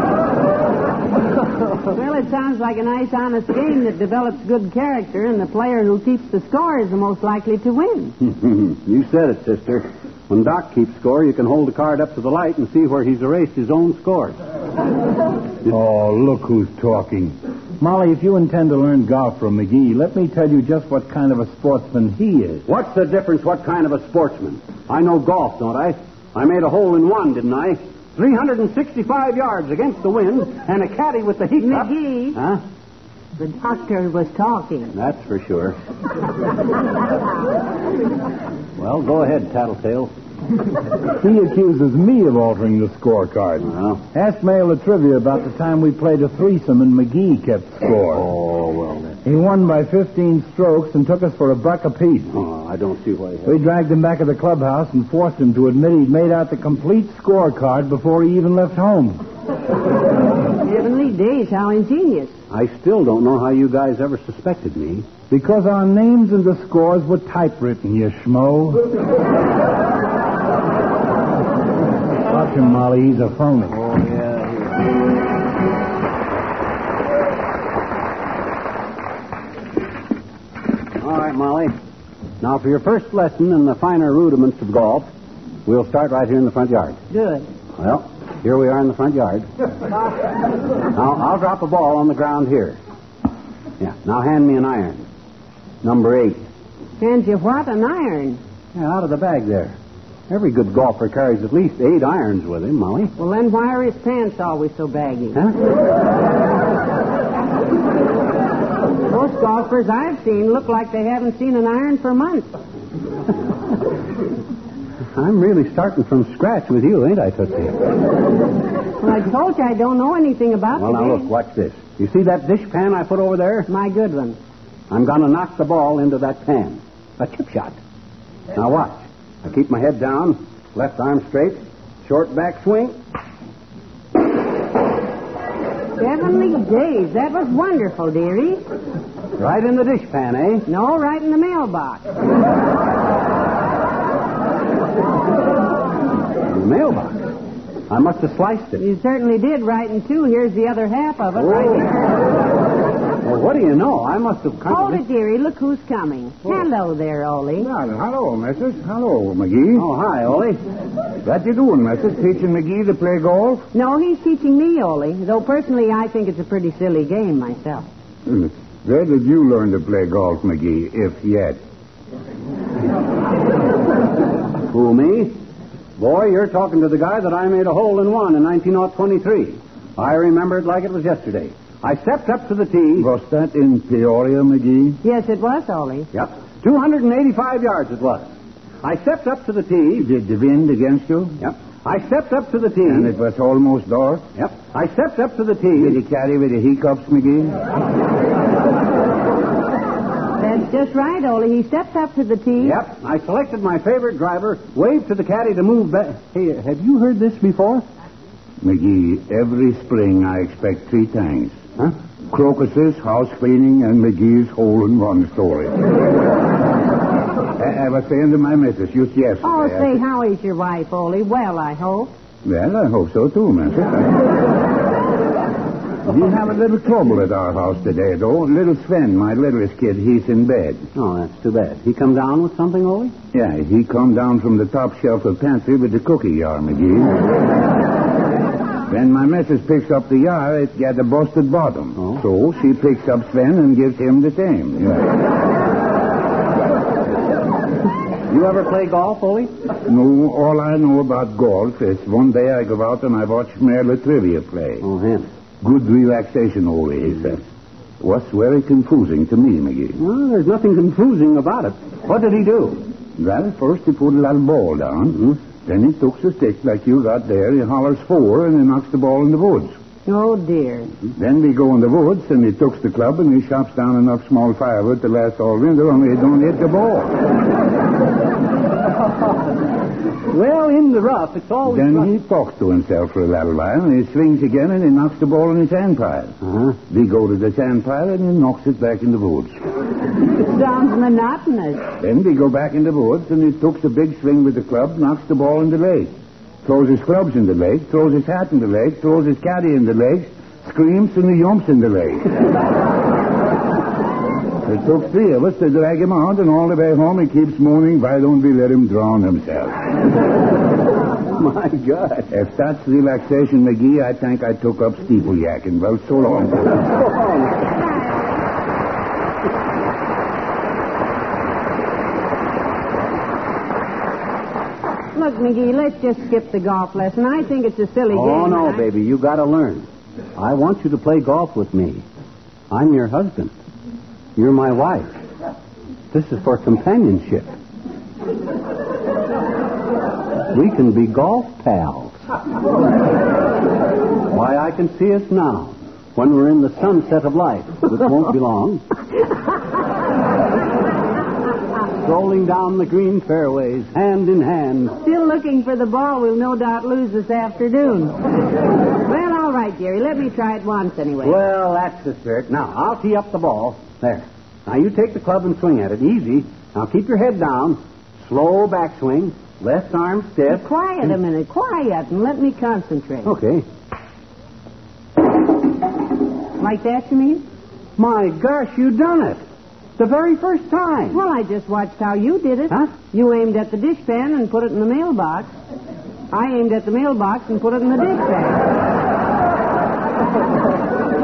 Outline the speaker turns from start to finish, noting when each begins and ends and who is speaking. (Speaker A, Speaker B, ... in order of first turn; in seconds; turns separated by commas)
Speaker A: 1.9-8.1, Speaker B: 8.2-14.4, Speaker C: 15.7-22.6, Speaker B: 22.6-32.6, Speaker A: 31.6-32.4, Speaker A: 33.4-34.9, Speaker B: 34.9-35.8, Speaker B: 38.8-40.1, Speaker C: 41.2-48.3, Speaker B: 43.6-44.0, Speaker B: 48.1-49.2, Speaker C: 49.2-52.4, Speaker B: 52.3-53.6, Speaker C: 53.5-59.2, Speaker A: 60.6-62.3, Speaker B: 62.5-65.1, Speaker C: 65.3-68.8, Speaker C: 72.3-73.8, Speaker B: 73.7-74.8, Speaker B: 81.0-81.7, Speaker B: 82.4-85.1, Speaker B: 85.7-87.0, Speaker A: 87.1-87.5, Speaker B: 87.8-89.5, Speaker B: 90.9-92.8, Speaker B: 93.8-95.0, Speaker B: 95.8-96.4, Speaker A: 97.0-98.4, Speaker B: 98.7-99.8, Speaker B: 100.3-103.1, Speaker A: 103.2-105.4, Speaker A: 109.1-112.5, Speaker B: 115.1-117.8, Speaker A: 119.0-121.3, Speaker B: 120.8-123.7, Speaker A: 123.7-124.4, Speaker B: 124.9-127.8, Speaker B: 128.5-132.9, Speaker A: 136.0-138.6, Speaker B: 139.4-140.7, Speaker A: 140.7-142.0, Speaker B: 146.5-147.3, Speaker B: 147.9-148.8, Speaker A: 148.8-152.0, Speaker B: 151.4-151.8, Speaker B: 153.2-155.0, Speaker A: 154.7-157.7, Speaker C: 157.6-159.8, Speaker B: 159.7-160.6, Speaker C: 161.2-163.6, Speaker A: 163.7-167.8, Speaker C: 168.3-171.6, Speaker B: 174.7-175.4, Speaker B: 176.0-183.1, Speaker C: 183.0-184.9, Speaker A: 185.0-186.1, Speaker B: 186.1-188.3, Speaker B: 188.8-190.1, Speaker C: 190.0-191.3, Speaker B: 191.4-193.1, Speaker C: 192.9-194.2, Speaker B: 194.3-196.0, Speaker C: 195.8-197.6, Speaker A: 200.4-202.8, Speaker B: 202.6-207.8, Speaker C: 208.6-211.6, Speaker C: 212.3-215.7, Speaker C: 217.6-220.0, Speaker A: 219.4-222.1, Speaker C: 222.4-224.1, Speaker C: 226.1-230.8, Speaker B: 230.9-233.1, Speaker C: 233.3-237.2, Speaker C: 238.9-245.1, Speaker B: 248.3-249.5, Speaker C: 249.8-254.8, Speaker B: 254.8-255.3, Speaker C: 255.6-257.4, Speaker C: 258.0-260.0, Speaker B: 260.0-262.8, Speaker C: 263.2-269.7, Speaker A: 270.1-270.9, Speaker C: 271.1-277.1, Speaker B: 280.3-282.1, Speaker C: 281.6-286.3, Speaker B: 286.4-286.8, Speaker C: 286.9-289.5, Speaker A: 290.3-291.8, Speaker C: 292.0-296.1, Speaker C: 296.6-302.2, Speaker C: 304.6-309.7, Speaker B: 311.4-312.3, Speaker C: 312.3-316.8, Speaker A: 318.0-318.2, Speaker A: 325.1-328.9, Speaker B: 328.1-332.0, Speaker B: 332.7-333.5, Speaker B: 334.4-335.1, Speaker B: 336.1-337.5, Speaker B: 340.5-342.2, Speaker B: 344.3-348.8, Speaker B: 352.0-354.9, Speaker A: 355.0-358.1, Speaker A: 359.0-361.4, Speaker B: 361.2-370.6, Speaker A: 370.5-373.3, Speaker B: 373.2-373.6, Speaker A: 376.6-377.4, Speaker B: 378.0-379.4, Speaker B: 380.0-381.2, Speaker A: 381.1-385.6, Speaker A: 386.3-388.8